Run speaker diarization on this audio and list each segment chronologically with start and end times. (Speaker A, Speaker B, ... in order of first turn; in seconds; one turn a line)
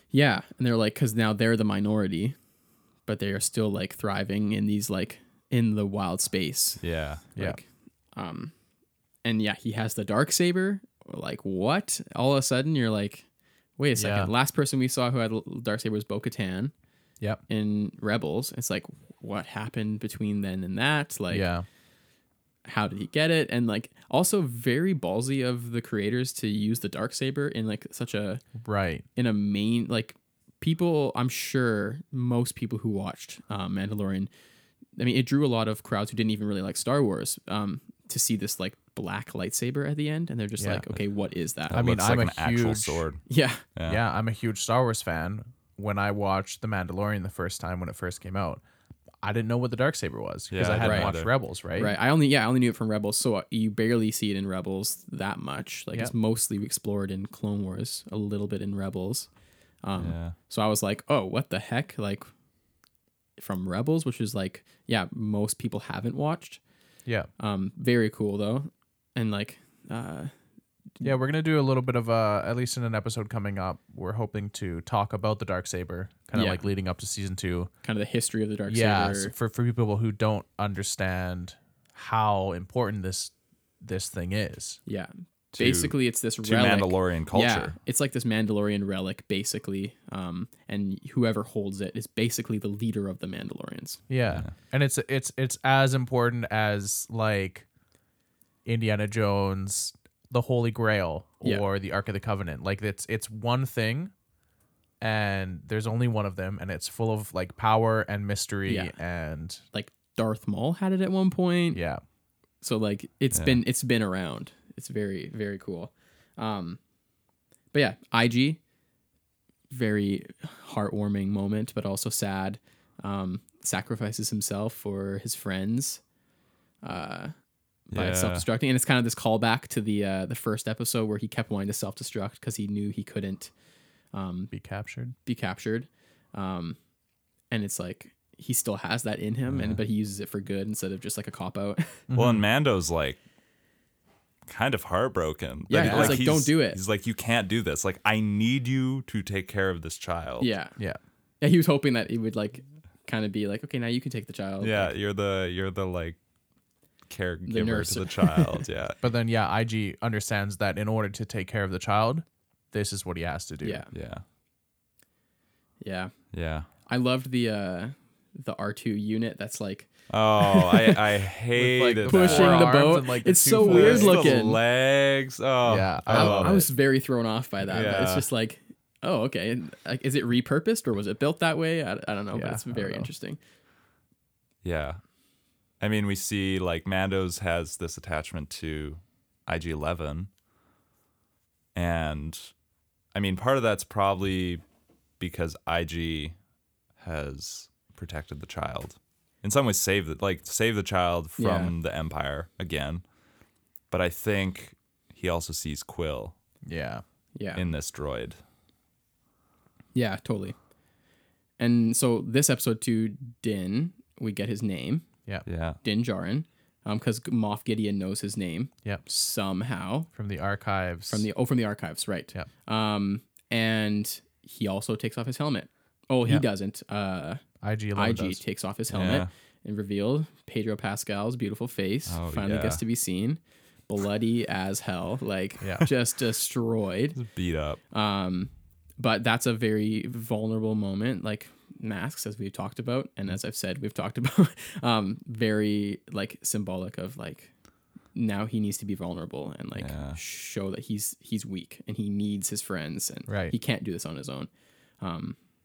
Speaker A: 0.1-2.4
Speaker A: 3.1-6.8
Speaker B: 6.8-7.2
Speaker A: 7.3-7.6
Speaker A: 8.2-8.5
Speaker A: 9.2-13.3
Speaker A: 13.8-16.7
Speaker C: 14.0-14.3
Speaker A: 17.5-21.5
Speaker C: 21.3-21.6
Speaker A: 22.7-28.4
Speaker C: 28.6-29.0
Speaker A: 29.2-34.3
Speaker A: 35.0-41.8
Speaker C: 40.6-40.9
Speaker B: 41.7-43.2
Speaker C: 41.7-43.0
Speaker A: 43.3-43.6
Speaker B: 43.8-44.0
Speaker C: 43.9-48.6
Speaker C: 49.2-51.9
Speaker B: 50.5-51.3
Speaker A: 50.8-51.1
Speaker A: 51.8-59.3
Speaker A: 59.8-62.2
Speaker B: 60.0-60.4
Speaker A: 63.4-66.6
Speaker A: 67.4-70.3
Speaker C: 71.0-77.7
Speaker A: 76.3-76.6
Speaker A: 77.8-79.3
Speaker C: 78.7-84.8
Speaker A: 84.9-94.0
Speaker B: 85.6-87.8
Speaker C: 94.1-97.7
Speaker C: 98.7-104.1
Speaker C: 105.0-109.6
Speaker A: 108.7-108.9
Speaker A: 109.7-111.8
Speaker C: 111.7-112.0
Speaker A: 112.6-116.8
Speaker B: 113.3-113.6
Speaker A: 117.7-118.6
Speaker A: 119.7-126.0
Speaker A: 126.8-127.3
Speaker A: 127.9-133.5
Speaker B: 127.9-128.5
Speaker A: 134.1-134.5
Speaker C: 134.5-135.2
Speaker A: 135.3-136.8
Speaker A: 137.5-142.1
Speaker C: 142.1-142.4
Speaker B: 142.1-143.2
Speaker B: 144.5-150.5
Speaker A: 145.7-146.8
Speaker C: 145.7-146.2
Speaker A: 150.4-150.8
Speaker A: 151.4-154.9
Speaker B: 154.6-156.2
Speaker B: 157.1-159.0
Speaker A: 157.5-158.6
Speaker C: 159.0-163.8
Speaker A: 163.6-163.9
Speaker B: 163.9-164.2
Speaker A: 165.8-166.2
Speaker B: 166.3-166.7
Speaker A: 166.9-171.0
Speaker B: 170.1-172.7
Speaker C: 171.6-174.3
Speaker A: 172.1-174.6
Speaker B: 173.6-176.6
Speaker C: 175.7-176.7
Speaker A: 176.1-183.4
Speaker B: 177.7-178.3
Speaker C: 182.3-183.1
Speaker B: 184.6-185.0
Speaker B: 185.8-190.3
Speaker B: 191.8-192.5
Speaker B: 193.1-194.6
Speaker B: 195.2-196.3
Speaker B: 197.0-203.0
Speaker A: 201.4-201.7
Speaker B: 203.9-206.3
Speaker C: 206.7-207.0
Speaker A: 207.3-207.6
Speaker B: 207.5-208.4
Speaker A: 209.9-210.6
Speaker A: 211.6-215.1
Speaker B: 215.5-215.8
Speaker A: 215.8-220.1
Speaker C: 220.1-221.3
Speaker A: 221.1-227.4
Speaker C: 227.6-228.4
Speaker A: 227.9-237.2
Speaker B: 228.9-229.3
Speaker B: 232.1-232.8
Speaker C: 235.6-235.9
Speaker B: 237.2-237.8
Speaker A: 237.9-247.5
Speaker A: 248.1-255.4
Speaker B: 249.8-250.2
Speaker C: 253.3-253.5